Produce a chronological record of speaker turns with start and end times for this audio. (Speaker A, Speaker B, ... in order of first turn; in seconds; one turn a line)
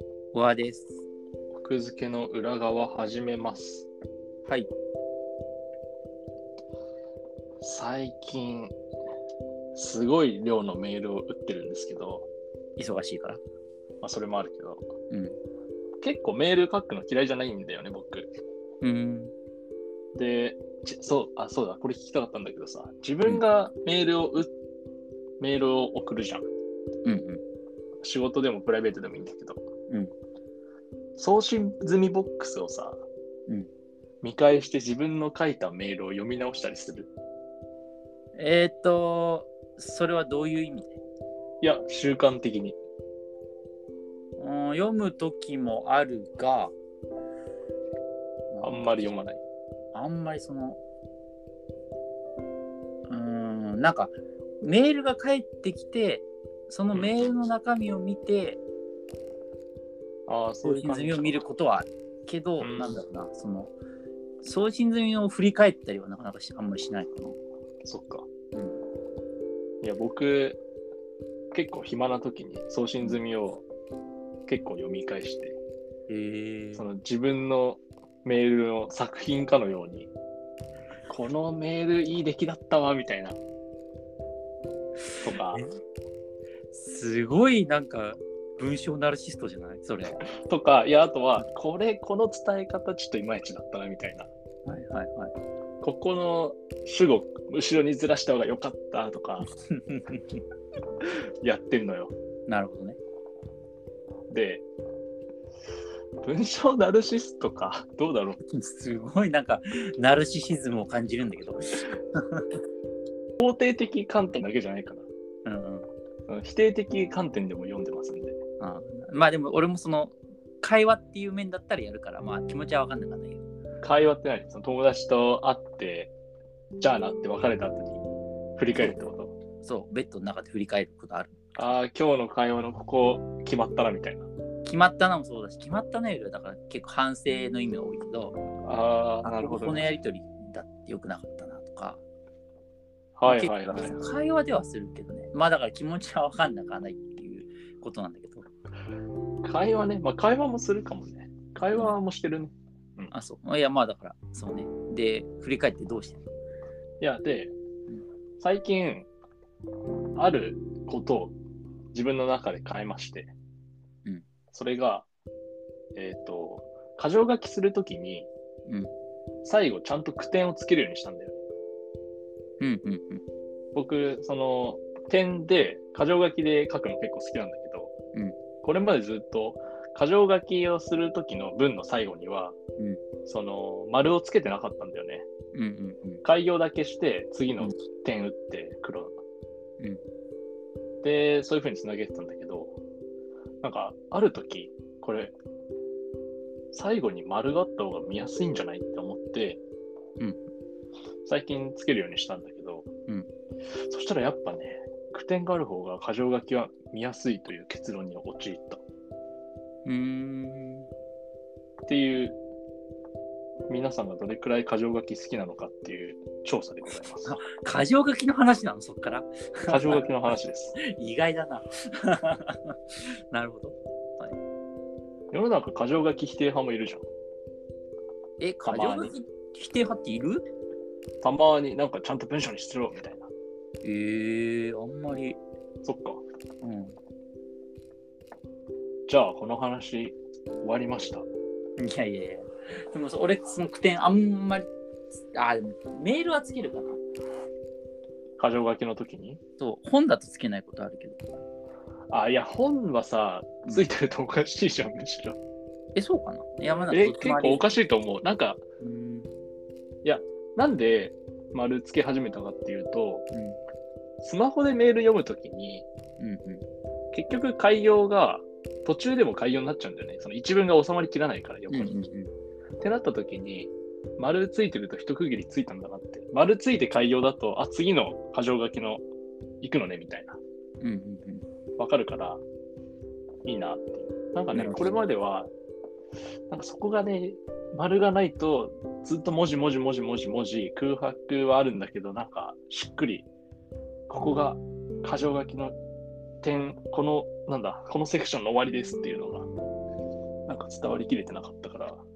Speaker A: 0.3-1.1
Speaker B: 1.5-3.9
Speaker B: 7.6-8.8
Speaker B: 9.7-12.3
Speaker A: 12.8-13.4
Speaker B: 14.0-14.9
Speaker A: 15.1-15.4
Speaker B: 16.0-18.3
Speaker A: 18.8-19.3
Speaker B: 20.1-24.5
Speaker B: 25.4-26.5
Speaker A: 27.1-27.4
Speaker B: 28.0-29.6
Speaker B: 31.2-33.0
Speaker B: 34.2-37.1
Speaker A: 38.4-41.0
Speaker B: 41.6-42.8
Speaker A: 44.4-46.8
Speaker A: 48.5-48.9
Speaker B: 48.6-49.4
Speaker A: 49.9-50.8
Speaker A: 53.1-58.6
Speaker B: 56.9-57.3
Speaker B: 60.3-61.4
Speaker A: 60.6-63.7
Speaker B: 62.6-63.0
Speaker A: 64.4-67.4
Speaker B: 67.8-68.3
Speaker A: 68.5-68.8
Speaker B: 69.8-70.6
Speaker B: 71.5-73.7
Speaker B: 74.5-75.6
Speaker A: 76.1-76.8
Speaker B: 76.8-80.1
Speaker B: 81.1-83.4
Speaker A: 85.2-85.8
Speaker B: 85.2-85.7
Speaker A: 86.7-90.2
Speaker B: 90.4-94.3
Speaker A: 94.7-95.3
Speaker B: 95.8-99.5
Speaker A: 99.5-100.4
Speaker B: 101.0-102.1
Speaker A: 102.5-103.0
Speaker B: 104.3-104.7
Speaker B: 106.2-108.4
Speaker A: 108.5-112.6
Speaker B: 113.4-115.1
Speaker A: 115.5-115.9
Speaker B: 116.3-118.4
Speaker A: 118.6-123.5
Speaker B: 123.8-126.1
Speaker B: 126.8-128.0
Speaker B: 128.6-129.3
Speaker A: 129.6-131.7
Speaker B: 131.6-134.3
Speaker A: 134.6-138.4
Speaker B: 138.6-139.9
Speaker A: 139.2-142.0
Speaker B: 143.2-144.1
Speaker A: 143.3-148.5
Speaker B: 149.4-153.1
Speaker A: 151.7-151.9
Speaker A: 153.1-156.2
Speaker B: 157.0-157.6
Speaker B: 158.4-159.1
Speaker B: 160.2-161.4
Speaker B: 161.9-163.3
Speaker B: 164.5-165.1
Speaker B: 165.9-168.3
Speaker B: 169.4-171.4
Speaker A: 172.6-173.2
Speaker B: 173.7-177.9
Speaker B: 178.6-182.6
Speaker B: 183.3-185.3
Speaker A: 185.5-186.2
Speaker B: 186.2-189.2
Speaker B: 191.0-192.8
Speaker B: 193.6-195.3
Speaker B: 196.7-199.6
Speaker B: 201.2-202.9
Speaker B: 203.9-208.8
Speaker A: 209.8-210.9
Speaker B: 211.9-212.4
Speaker B: 213.7-217.4
Speaker A: 217.2-220.1
Speaker B: 219.7-220.8
Speaker A: 220.8-224.4
Speaker B: 225.3-227.1
Speaker A: 228.4-230.4
Speaker B: 228.6-229.2
Speaker B: 231.2-233.3
Speaker A: 233.8-235.4
Speaker B: 235.8-236.3
Speaker A: 236.6-237.0
Speaker B: 239.1-241.3
Speaker A: 241.8-244.7
Speaker A: 245.3-247.0
Speaker B: 248.4-249.4
Speaker A: 249.6-251.2
Speaker B: 252.1-255.4
Speaker A: 255.9-257.8
Speaker B: 256.9-258.6
Speaker A: 258.8-259.3
Speaker B: 260.0-263.3
Speaker A: 263.3-263.6
Speaker B: 264.2-265.9
Speaker A: 266.2-266.6
Speaker B: 267.1-271.9
Speaker A: 271.7-272.3
Speaker B: 272.8-279.0
Speaker B: 279.6-280.4
Speaker A: 280.8-281.4
Speaker B: 281.8-282.4
Speaker B: 283.4-285.5
Speaker A: 284.5-285.0
Speaker B: 286.5-293.3
Speaker B: 294.1-295.8
Speaker B: 296.4-299.5
Speaker B: 300.5-302.1